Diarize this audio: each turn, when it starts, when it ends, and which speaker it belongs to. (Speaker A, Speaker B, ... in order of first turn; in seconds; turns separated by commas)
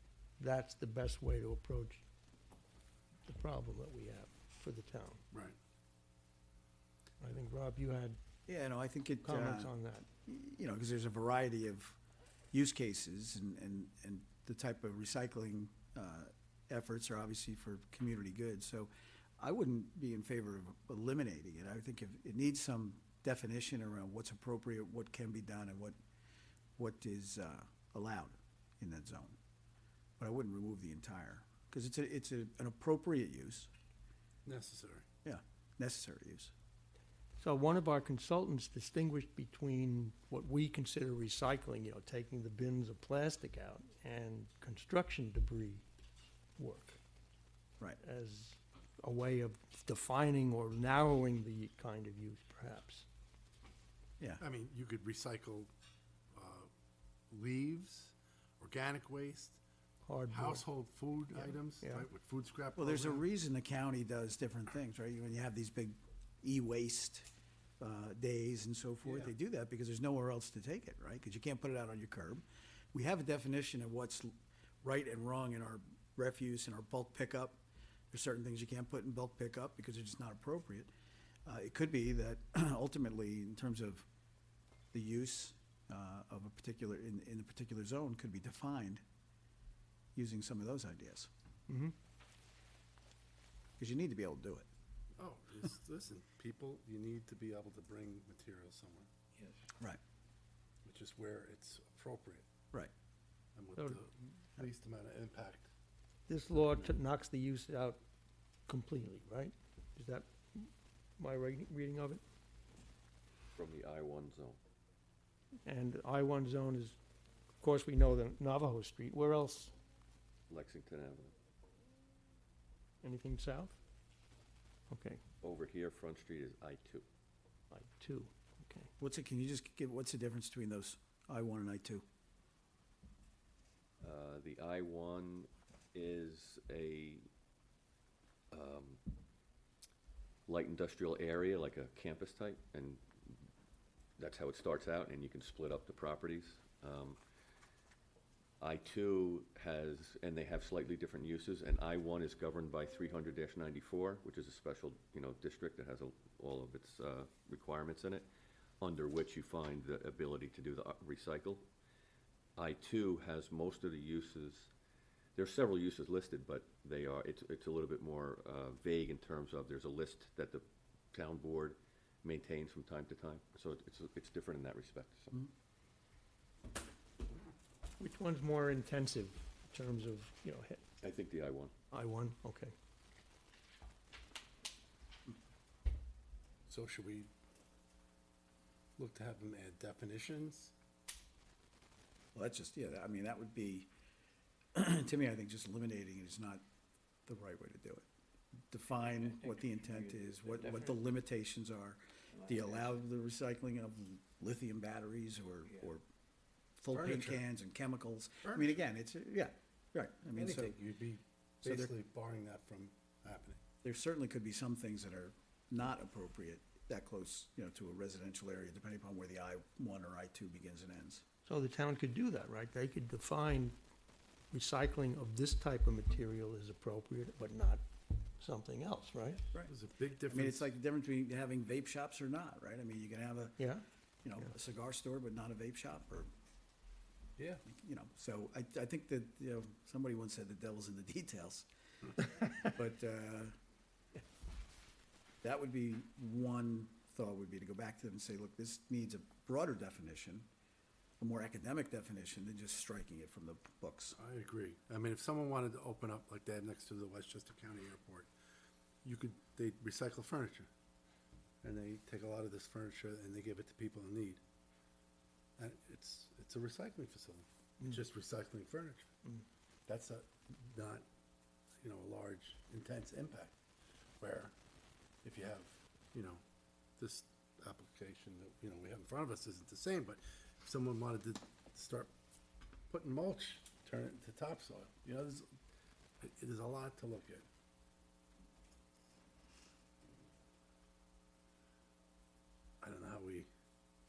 Speaker A: 0.4-2.0, Speaker A: 3.3-5.2, Speaker B: 5.3-5.6, Speaker A: 7.2-8.2, Speaker C: 8.5-9.7, Speaker A: 9.2-10.1, Speaker C: 10.3-12.0, Speaker C: 12.5-26.0, Speaker C: 26.8-29.4, Speaker C: 30.2-33.7, Speaker B: 34.5-35.1, Speaker C: 35.2-36.5, Speaker A: 37.4-45.9, Speaker A: 46.6-47.0, Speaker A: 48.0-53.1, Speaker B: 54.4-55.7, Speaker B: 56.3-56.7, Speaker B: 57.3-59.6, Speaker A: 60.1-60.6, Speaker B: 60.3-63.2, Speaker C: 62.8-67.3, Speaker C: 67.8-74.3, Speaker C: 74.8-80.9, Speaker C: 81.5-84.0, Speaker C: 84.9-89.0, Speaker C: 90.2-91.3, Speaker A: 91.7-92.0, Speaker C: 93.8-94.7, Speaker B: 95.2-99.1, Speaker B: 100.8-102.5, Speaker B: 103.5-105.7, Speaker A: 106.3-108.0, Speaker B: 106.5-107.0, Speaker A: 108.7-112.2, Speaker D: 113.5-114.6, Speaker A: 115.7-117.0, Speaker A: 117.6-119.7, Speaker D: 120.5-121.3, Speaker A: 123.0-123.8, Speaker A: 124.9-125.2, Speaker D: 125.4-127.1, Speaker A: 127.7-128.9, Speaker C: 129.0-132.0, Speaker D: 134.0-137.2, Speaker D: 138.5-139.0, Speaker D: 140.5-143.5, Speaker D: 144.2-147.2, Speaker D: 148.6-158.3, Speaker D: 158.8-161.7, Speaker D: 162.6-164.7, Speaker D: 165.3-175.5, Speaker A: 178.0-180.8, Speaker D: 181.0-181.7, Speaker A: 181.9-182.7, Speaker B: 186.7-187.3, Speaker B: 189.0-190.7, Speaker C: 192.3-193.9, Speaker C: 194.8-196.6, Speaker C: 197.3-198.1, Speaker C: 198.7-206.0, Speaker C: 206.8-210.8, Speaker B: 206.9-207.4, Speaker B: 208.5-208.8, Speaker B: 210.4-213.6, Speaker C: 211.6-211.9, Speaker C: 213.8-221.2, Speaker A: 221.5-223.8, Speaker A: 224.5-227.8, Speaker A: 228.4-229.4, Speaker B: 229.7-230.7, Speaker C: 230.3-233.6, Speaker A: 233.6-233.8, Speaker C: 234.2-236.3, Speaker B: 237.4-237.6, Speaker C: 237.7-243.5, Speaker C: 245.4-250.5, Speaker C: 251.2-254.2, Speaker B: 254.2-258.3, Speaker B: 259.0-260.7, Speaker B: 261.6-264.4, Speaker B: 265.6-269.1, Speaker B: 269.9-271.1, Speaker B: 271.8-273.5, Speaker B: 274.2-274.5, Speaker B: 275.2-276.4, Speaker B: 277.0-282.1, Speaker B: 282.9-285.5, Speaker B: 286.2-287.5, Speaker B: 292.8-293.5